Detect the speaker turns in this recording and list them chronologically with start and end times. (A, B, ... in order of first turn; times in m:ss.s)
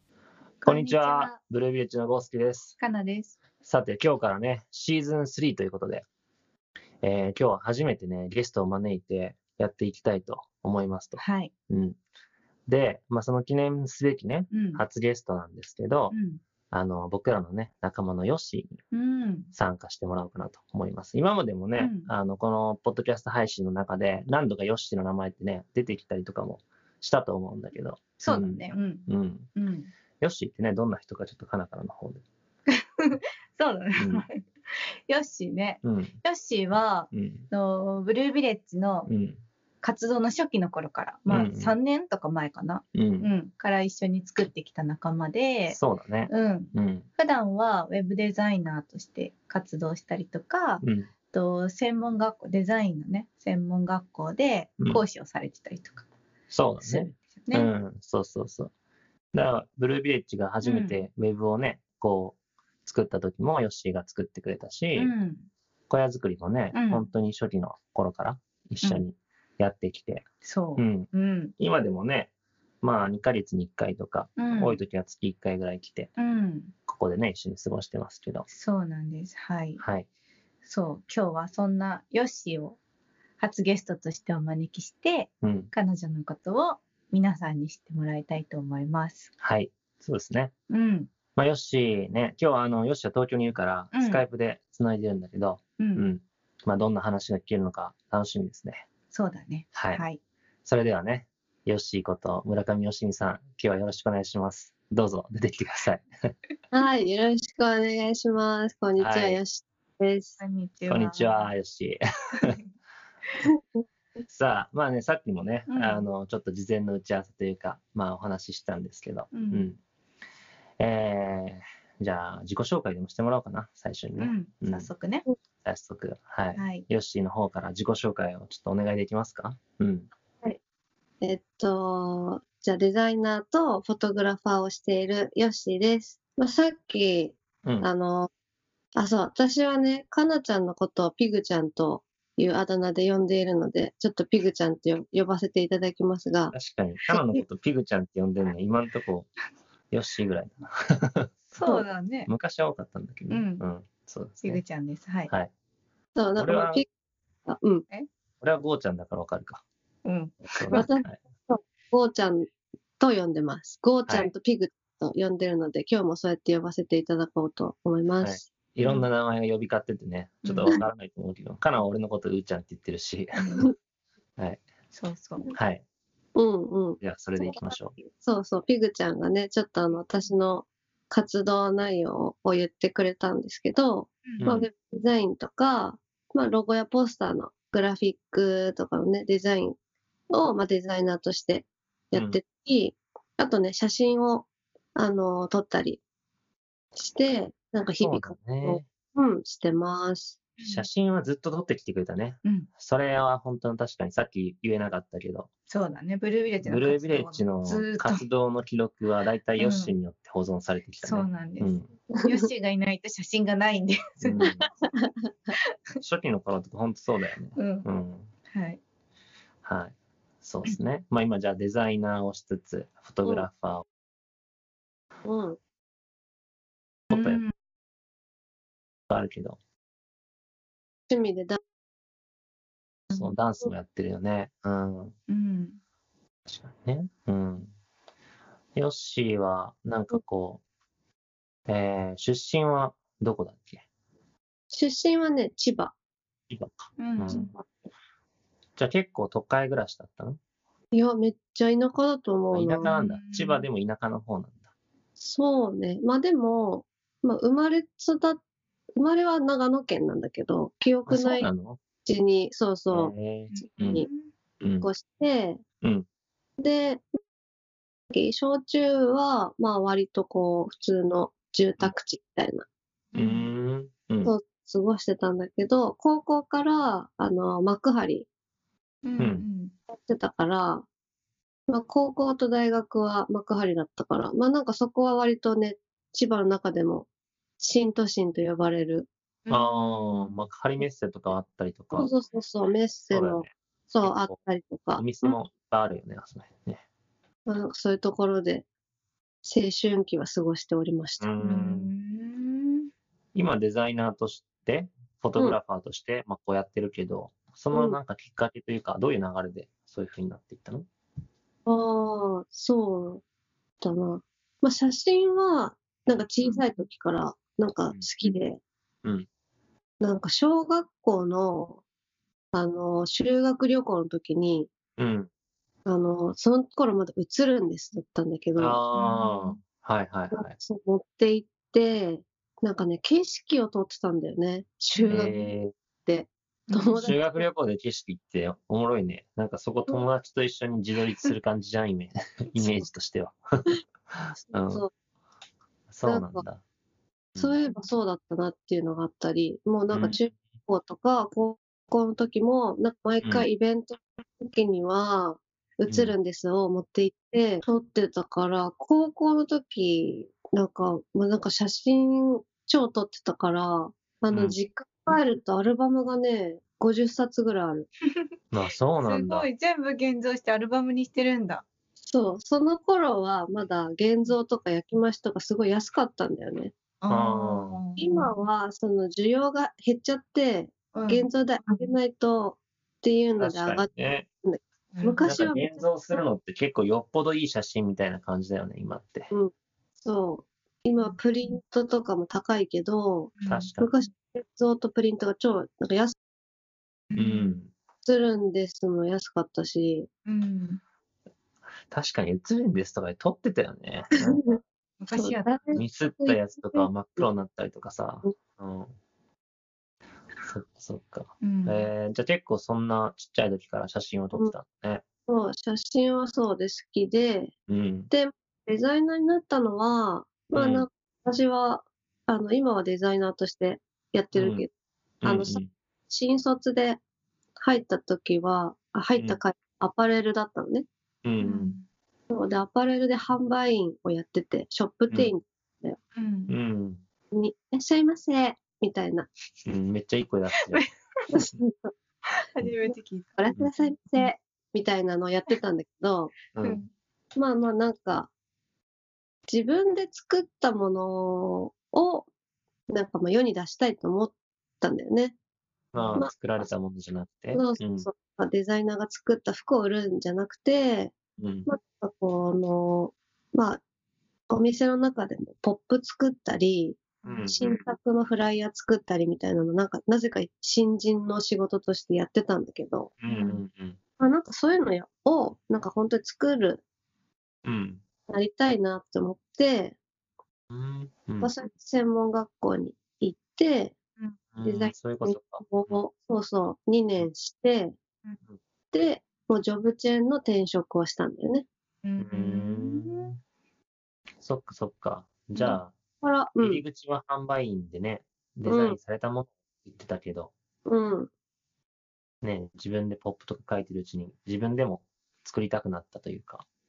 0:00.6-0:01.4 A
0:00.6-0:02.8 B
0:02.8-0:03.4 A
0:03.6-0:06.0 B
0:07.0-0:12.0 B
0:11.2-0:11.5 A
0:12.7-0:16.2 B
0:14.5-0:14.8 A
0:16.1-0:16.4 A
0:16.7-0:18.8 B
0:18.9-0:19.5 A
0:19.5-0:29.5 B
0:21.8-0:22.1 A
0:28.2-0:29.9 A
0:30.2-0:32.2 B
0:33.0-0:34.4 A
0:34.0-0:34.2 B
0:35.1-0:39.1 A
0:35.8-0:36.2 B
0:37.1-0:37.5 B
0:39.1-0:39.4 B
0:39.8-0:56.1 A
0:41.3-0:41.8 B
0:43.0-0:43.3 B
0:45.7-0:47.1 B
0:50.8-0:51.1 B
0:56.5-0:58.7 B
0:56.8-0:57.7 A
0:59.3-1:05.1 B
1:00.6-1:01.0 A
1:05.0-1:05.5 A
1:05.9-1:10.2 B
1:06.7-1:07.1 A
1:10.4-1:11.5 A
1:10.8-1:16.1 B
1:14.4-1:14.8 A
1:16.2-1:16.7 A
1:16.9-1:18.5 B
1:18.5-1:19.8 A
1:19.8-1:20.1 B
1:20.6-1:22.8 A
1:23.4-1:29.3 A
1:25.4-1:25.7 B
1:29.4-1:30.5 B
1:30.7-1:31.1 A
1:31.4-1:38.9 B
1:33.9-1:34.2 A
1:35.8-1:36.1 A
1:39.1-1:40.2 A
1:39.7-1:40.0 B
1:40.6-1:46.1 B
1:46.7-1:50.4 C
1:49.0-1:49.4 B
1:50.4-1:51.5 A
1:50.9-1:52.6 B
1:53.4-1:53.8 C
1:54.3-1:59.8 B
1:55.7-1:56.1 A
1:59.3-1:59.7 A
2:00.8-2:04.9 B
2:04.2-2:05.3 A
2:05.6-2:10.1 B
2:06.6-2:06.9 A
2:11.2-2:18.3 C
2:19.0-2:26.6 C
2:26.5-2:29.3 B
2:27.1-2:27.4 C
2:29.9-2:31.5 B
2:31.6-2:32.3 A
2:32.3-2:34.6 B
2:33.3-2:33.6 A
2:34.4-2:35.3 A
2:36.2-2:36.9 C
2:36.4-2:36.8 B
2:37.5-2:37.8 C
2:38.4-2:39.6 B
2:40.0-2:40.9 A
2:40.6-2:41.2 B
2:40.7-2:48.5 C
2:44.1-2:44.3 B
2:48.2-2:53.7 B
2:48.8-2:49.1 A
2:50.4-2:50.7 A
2:53.4-2:53.7 A
2:54.4-2:54.6 B
2:54.9-2:55.5 A
2:55.5-2:55.8 B
2:56.4-3:09.8 C
2:57.0-2:58.0 B
3:04.4-3:04.7 B
3:10.3-3:16.0 C
3:12.1-3:12.4 B
3:17.0-3:20.4 C
3:18.0-3:18.9 B
3:20.6-3:20.9 A
3:20.7-3:25.5 B
3:22.4-3:22.7 A
3:25.7-3:28.2 A
3:26.6-3:31.9 B
3:29.6-3:29.9 A
3:31.0-3:34.5 A
3:32.1-3:32.5 C
3:34.2-3:34.7 B
3:34.4-3:35.3 C
3:36.0-3:38.3 B
3:37.6-3:37.9 A
3:38.5-3:38.8 A
3:39.6-3:43.8 B
3:45.2-3:45.6 C
3:47.1-3:47.5 A
3:47.1-3:47.4 B
3:49.1-3:49.6 B
3:51.1-3:51.6 C
3:53.1-3:55.2 B
3:55.3-3:55.8 A
3:56.5-3:57.7 B
3:58.8-4:00.6 B
4:01.7-4:03.8 B
4:04.7-4:05.9 C
4:06.5-4:07.5 B
4:07.0-4:07.5 A
4:07.3-4:07.7 C
4:08.8-4:10.4 B
4:10.9-4:12.9 C
4:12.5-4:14.6 B
4:12.8-4:13.7 A
4:15.2-4:18.4 C
4:19.0-4:21.5 C
4:21.1-4:21.8 B
4:22.0-4:24.1 C
4:22.9-4:24.1 B
4:23.5-4:24.3 A
4:24.6-4:24.9 B
4:24.8-4:25.6 C
4:26.6-4:27.0 C
4:28.1-4:32.7 C
4:33.1-4:33.5 A
4:33.2-4:34.3 B
4:34.2-4:38.3 C
4:39.0-4:39.7 A
4:39.2-4:39.4 B
4:39.9-4:40.8 C
4:41.7-4:47.1 C
4:47.6-4:49.1 C
4:49.4-4:50.4 A
4:49.5-4:52.1 B
4:52.0-4:55.1 C
4:53.1-4:53.5 B
4:54.0-4:54.4 B
4:55.0-4:56.8 B
4:57.5-4:58.7 C
4:59.4-5:01.4 C
5:01.2-5:01.9 B
5:01.4-5:02.9 A
5:03.3-5:10.9 B
5:07.7-5:08.0 C
5:11.7-5:13.2 C
5:13.8-5:18.6 C
5:20.0-5:21.8 C
5:22.5-5:24.7 C
5:25.0-5:25.3 B
5:25.9-5:28.8 C
5:28.6-5:30.6 B
5:29.0-5:29.6 A
5:30.3-5:35.4 C
5:35.1-5:35.7 B
5:36.1-5:37.2 C
5:36.7-5:37.2 A
5:37.0-5:43.4 B
5:42.6-5:42.9 C
5:44.1-5:44.8 B
5:44.4-5:44.9 C
5:45.9-5:46.6 B
5:46.0-5:46.4 C
5:47.4-6:07.9 C
5:49.9-5:50.2 B
5:55.9-5:56.2 B
6:08.5-6:09.5 B
6:09.0-6:11.6 A
6:12.0-6:16.7 C
6:17.0-6:18.3 A
6:17.1-6:17.8 B
6:18.0-6:23.9 C
6:20.9-6:21.9 A
6:23.4-6:24.3 B
6:24.4-6:26.2 C
6:24.9-6:25.2 A
6:25.2-6:29.3 B
6:29.3-6:36.2 C
6:33.4-6:33.7 A
6:33.5-6:33.9 B
6:37.1-6:37.6 A
6:37.2-6:37.7 B
6:38.0-6:40.1 C
6:40.3-6:40.8 A
6:41.9-6:44.6 B
6:45.0-6:45.8 A
6:45.1-6:47.2 C
6:45.8-6:48.9 B
6:50.4-6:55.0 B
6:51.4-6:51.9 A
6:55.3-6:57.5 C
6:57.7-6:58.1 B
6:58.1-7:04.7 C
7:00.6-7:00.9 B
7:04.3-7:04.6 B
7:05.2-7:05.7 B
7:05.2-7:07.0 C
7:07.6-7:10.9 C
7:11.2-7:11.8 B
7:11.4-7:11.8 A
7:12.3-7:16.0 C
7:16.2-7:16.6 A
7:16.5-7:17.0 B
7:17.3-7:19.3 C
7:19.6-7:20.8 B
7:20.6-7:20.9 A
7:21.3-7:21.9 C
7:22.6-7:24.3 A
7:23.4-7:26.4 C
7:26.6-7:26.8 B
7:26.6-7:26.9 A
7:27.4-7:28.3 C
7:29.5-7:32.3 C
7:32.9-7:35.4 C
7:35.9-7:38.1 B
7:37.5-7:41.1 C
7:41.4-7:41.7 B
7:41.7-7:43.8 C
7:44.5-7:53.1 C
7:47.2-7:47.8 A
7:47.2-7:47.6 B
7:53.2-7:54.0 B
7:53.3-7:53.6 A
7:54.2-7:56.8 C
7:57.6-7:58.0 B
7:58.3-8:00.0 C
8:00.7-8:01.5 B
8:01.4-8:04.0 C
8:04.5-8:06.0 B
8:04.6-8:08.0 C
8:08.9-8:11.7 C
8:12.0-8:13.3 A
8:12.2-8:13.4 B
8:14.4-8:15.9 B
8:16.2-8:16.8 C
8:16.6-8:20.5 B
8:18.7-8:19.0 C
8:20.9-8:21.3 C
8:22.4-8:26.6 B